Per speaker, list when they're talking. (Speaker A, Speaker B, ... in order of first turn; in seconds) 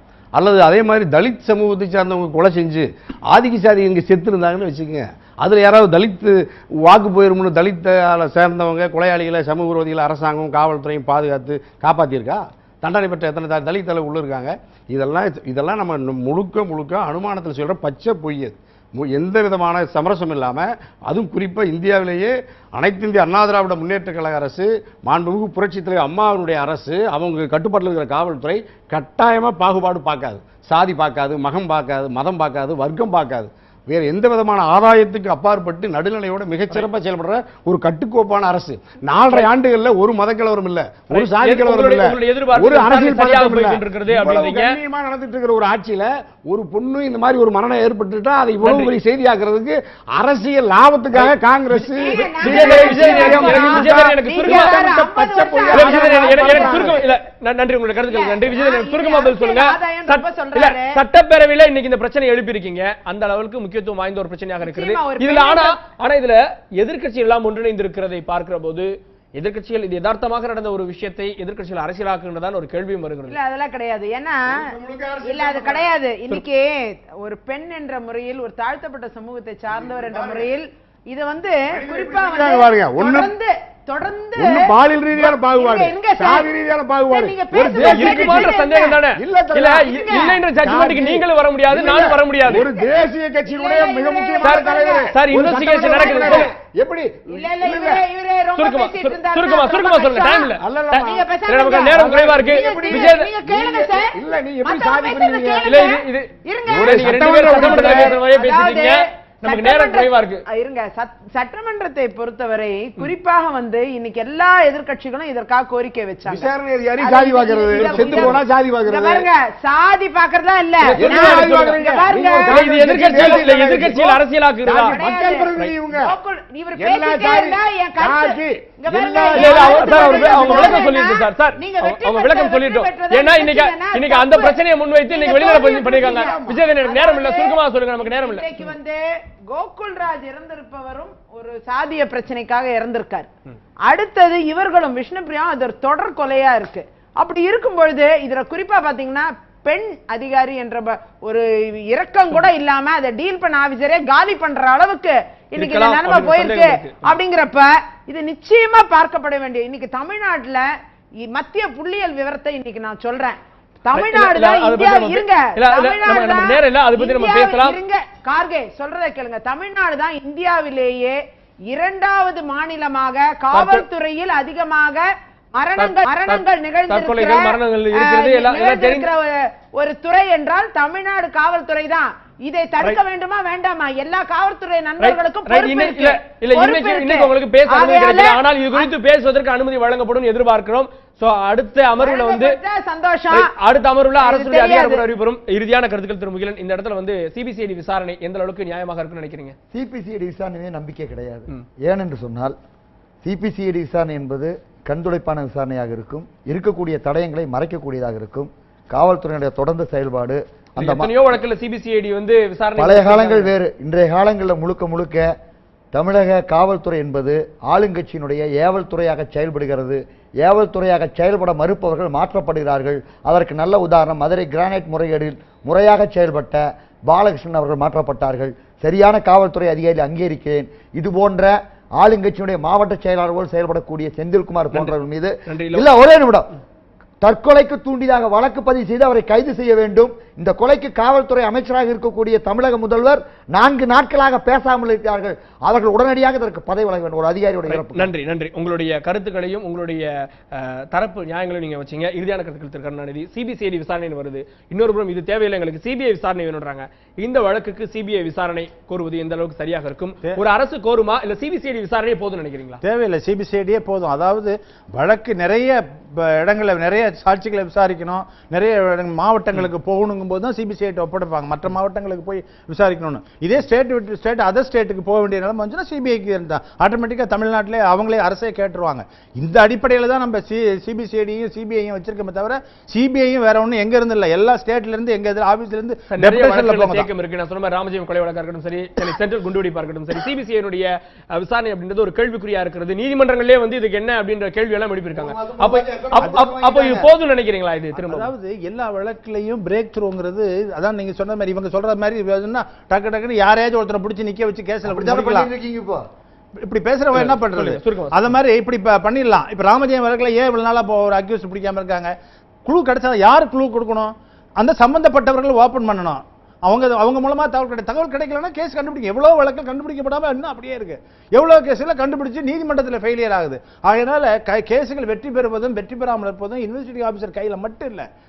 Speaker A: 0.3-57.0, 74.5-75.9, 79.7-80.5, 81.7-83.3, 84.4-88.5, 89.2-89.9, 90.5-98.0, 100.6-101.2, 101.9-105.8, 106.7-108.2, 116.2-119.3, 120.8-126.1, 126.8-130.9, 135.9-136.6
Speaker B: 41.1-44.8, 48.6-48.9, 51.1-54.8, 55.7-73.3, 87.7-92.7, 94.4-96.5, 98.6-103.3, 105.6-110.4, 117.7-118.4, 120.9-121.8, 122.5-125.0, 129.3-138.7, 155.6-157.1, 163.9-167.8, 173.5-173.8, 175.8-179.1, 185.0-192.6, 193.3-199.5, 210.8-213.5, 235.4-235.9, 247.7-262.8, 286.1-298.3, 307.1-308.2
Speaker C: 51.9-57.1, 58.1-61.0, 64.6-65.8, 73.3-74.7, 75.2-86.5, 87.1-89.0, 89.8-90.4, 92.5-95.1, 95.7-96.5, 97.3-123.8, 124.9-143.3, 143.9-160.7, 161.2-171.2, 171.7-188.9, 192.0-193.5, 194.2-195.0
Speaker D: 199.7-202.6, 203.2-211.3, 212.8-215.3, 215.9-236.5, 237.2-248.1, 295.1-297.1, 304.9-306.1
Speaker E: 262.8-287.1, 297.9-305.5, 306.6-328.1